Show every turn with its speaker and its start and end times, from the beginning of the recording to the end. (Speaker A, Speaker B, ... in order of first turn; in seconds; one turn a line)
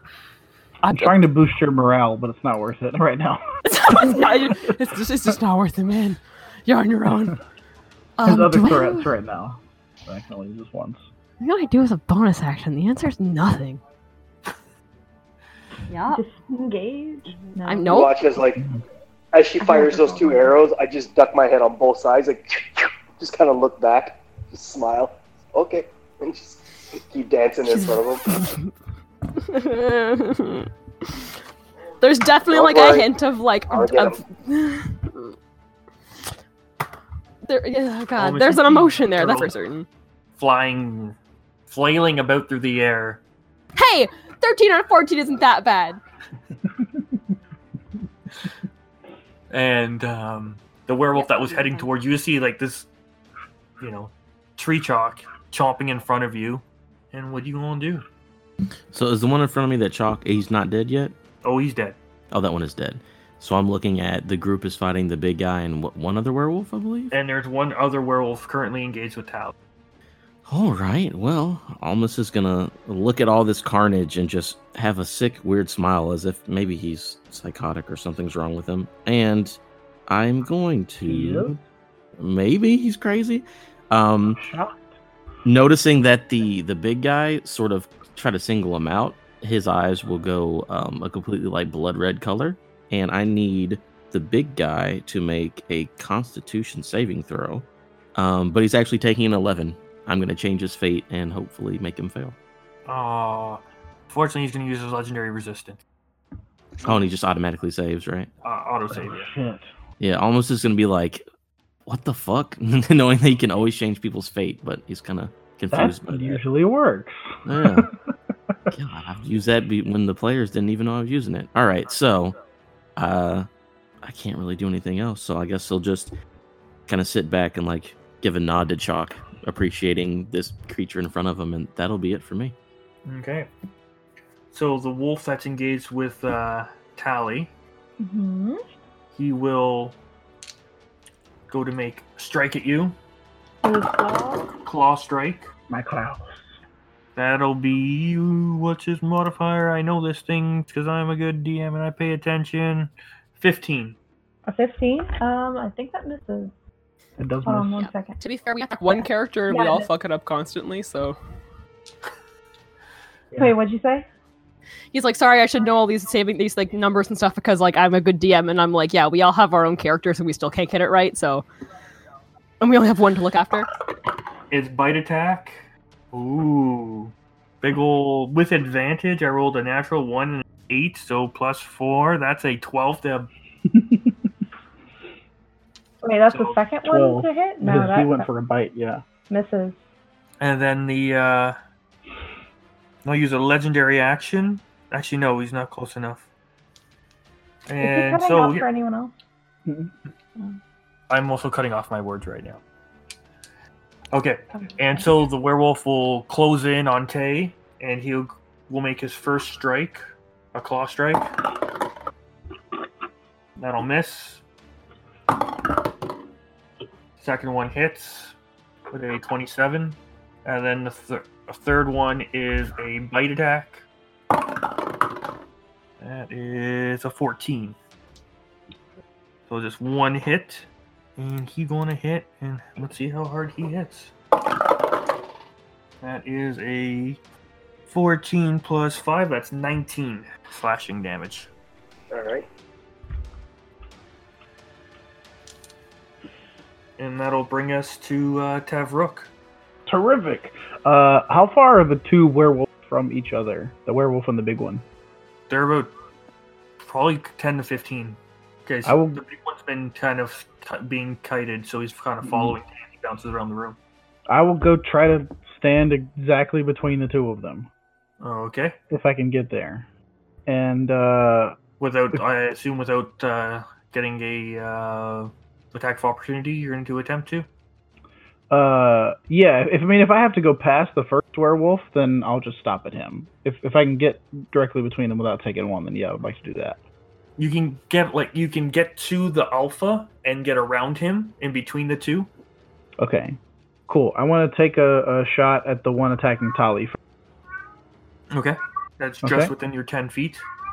Speaker A: 0.8-1.2
Speaker B: 0.9-3.4
Speaker A: 3.6-7.4
Speaker B: 4.0-4.7
Speaker A: 8.2-9.1
Speaker B: 8.2-11.1
Speaker A: 11.4-13.8
Speaker A: 15.9-16.2
Speaker C: 16.1-18.1
Speaker A: 17.6-18.1
Speaker D: 17.9-18.6
Speaker D: 19.3-28.3
Speaker C: 19.8-20.4
Speaker A: 27.6-28.7
Speaker A: 29.3-31.2
Speaker A: 32.0-35.3
Speaker D: 32.5-33.1
Speaker D: 33.7-34.2
Speaker A: 37.4-39.9
Speaker E: 38.2-39.5
Speaker E: 40.4-41.2
Speaker E: 41.7-43.2
Speaker A: 43.7-46.0
Speaker E: 49.5-52.9
Speaker A: 51.1-51.9
Speaker E: 53.8-58.0
Speaker F: 58.9-61.1
Speaker E: 61.4-62.0
Speaker F: 62.3-67.1
Speaker E: 67.1-69.5
Speaker F: 70.5-81.6
Speaker B: 81.0-81.5
Speaker F: 82.2-84.4
Speaker B: 84.4-84.9
Speaker F: 85.4-102.4
Speaker E: 102.9-105.8
Speaker F: 106.8-108.3
Speaker E: 108.4-109.3
Speaker B: 108.9-109.7
Speaker F: 110.0-111.2
Speaker F: 111.9-116.4
Speaker B: 115.7-117.9
Speaker F: 117.5-117.9
Speaker F: 118.7-122.3
Speaker F: 123.0-123.5
Speaker F: 124.0-126.1
Speaker F: 126.9-132.5
Speaker E: 133.0-133.5
Speaker E: 134.5-137.5
Speaker C: 138.0-138.6
Speaker E: 139.1-140.0
Speaker E: 141.5-143.0
Speaker C: 143.6-144.6
Speaker E: 144.6-145.5
Speaker B: 145.7-146.4
Speaker E: 147.2-154.0
Speaker C: 154.4-156.5
Speaker B: 157.2-157.7
Speaker C: 157.4-158.2
Speaker A: 157.8-161.2
Speaker C: 158.9-159.9
Speaker C: 163.3-164.1
Speaker A: 164.9-171.4
Speaker A: 172.6-173.7
Speaker E: 174.5-175.6
Speaker E: 176.1-183.3
Speaker B: 183.7-184.3
Speaker C: 186.0-188.3
Speaker E: 186.3-186.6
Speaker B: 186.8-189.0
Speaker C: 189.3-189.8
Speaker E: 190.4-191.6
Speaker E: 193.0-196.3
Speaker E: 197.7-198.7
Speaker C: 197.8-199.1
Speaker B: 199.7-199.9
Speaker E: 201.1-202.6
Speaker E: 204.1-210.0
Speaker C: 204.6-205.1
Speaker E: 210.5-211.3
Speaker E: 213.6-214.4
Speaker E: 217.2-218.3
Speaker E: 218.9-223.8
Speaker E: 226.0-227.8
Speaker E: 229.5-234.1
Speaker E: 236.0-237.2
Speaker E: 237.9-241.5
Speaker D: 242.1-242.5
Speaker E: 247.0-249.3
Speaker B: 249.9-254.8
Speaker E: 255.5-255.9
Speaker E: 256.8-263.8
Speaker B: 258.8-259.2
Speaker B: 262.2-262.6
Speaker B: 264.3-267.7
Speaker E: 268.2-268.8
Speaker B: 268.9-269.9
Speaker B: 270.5-271.6
Speaker E: 271.8-277.5
Speaker B: 278.5-286.8
Speaker E: 287.4-292.3
Speaker B: 293.0-297.0
Speaker E: 298.3-300.4
Speaker B: 299.2-299.5